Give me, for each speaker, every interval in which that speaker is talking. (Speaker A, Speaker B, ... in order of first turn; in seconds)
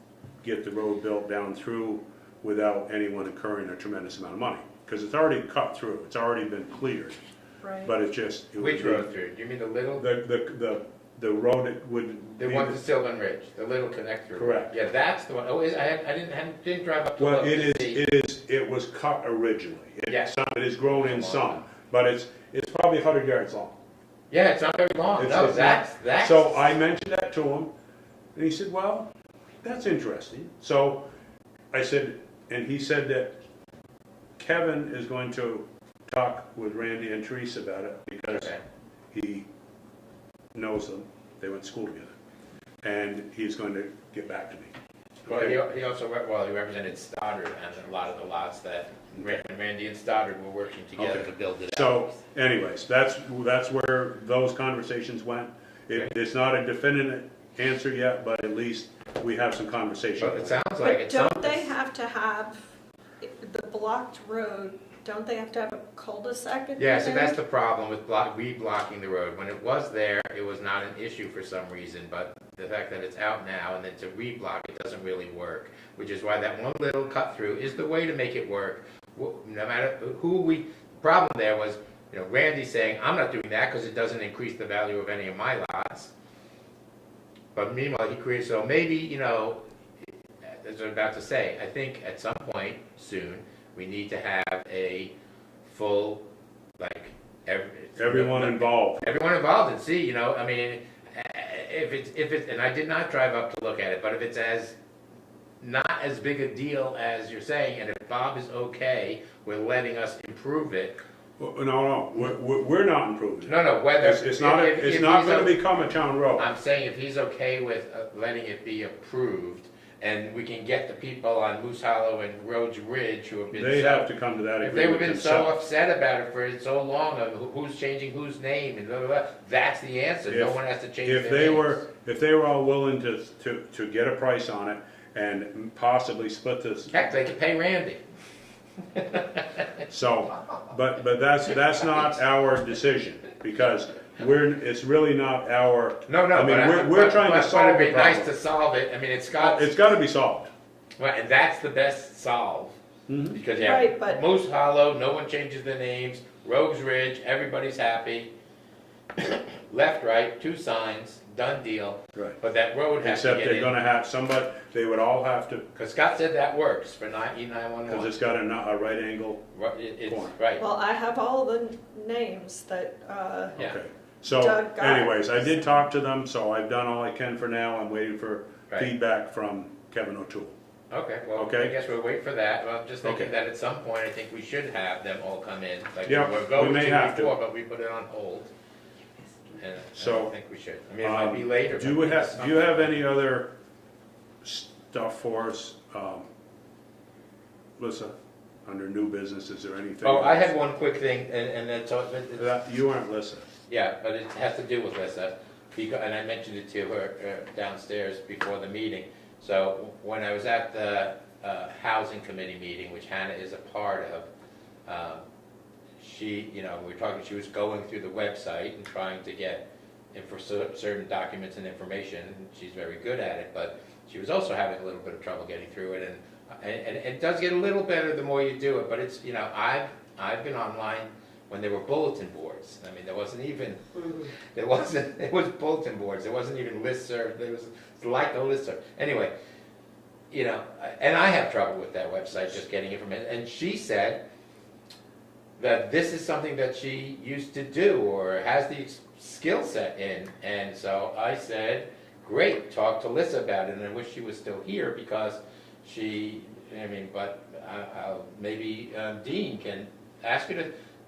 Speaker A: 0.4-7.2, 7.8-9.1, 9.9-12.8, 14.3-14.7, 17.2-23.8, 25.2-27.7, 28.3-29.1, 29.6-31.1, 31.7-33.4, 34.4-38.5, 39.1-39.5, 40.5-42.1, 42.8-44.7, 45.2-45.6, 51.0-60.6, 98.0-99.0, 111.4-116.5, 123.5-125.5, 130.3-137.0, 139.9-148.3, 149.4-150.5, 153.1-153.4, 163.0-165.7, 167.9-169.4, 170.0-170.3, 173.6-180.6, 181.3-181.7, 183.0-183.3, 186.1-187.3, 189.9-190.3, 191.0-193.5, 194.4-196.2, 197.8-200.5, 202.3-203.4
Speaker B: 7.6-7.9, 60.8-62.6, 63.2-67.4, 153.6-154.2, 170.6-173.6, 174.3-175.5
Speaker C: 8.6-10.1, 12.4-18.0, 20.1-21.6, 24.3-26.7, 38.3-38.6, 45.2-52.0, 60.2-61.7, 66.8-86.1, 87.5-89.6, 90.5-95.1, 95.7-96.2, 96.8-104.8, 105.6-111.0, 113.4-115.6, 116.4-124.1, 124.6-131.8, 136.9-138.0, 138.9-139.6, 146.1-149.8, 151.0-152.8, 153.3-158.3, 159.2-163.7, 165.7-168.1, 169.5-170.6, 180.9-188.5, 189.5-192.9, 200.0-202.6, 203.7-214.3, 214.9-215.2, 216.0-239.3, 240.3-244.2, 245.6-260.7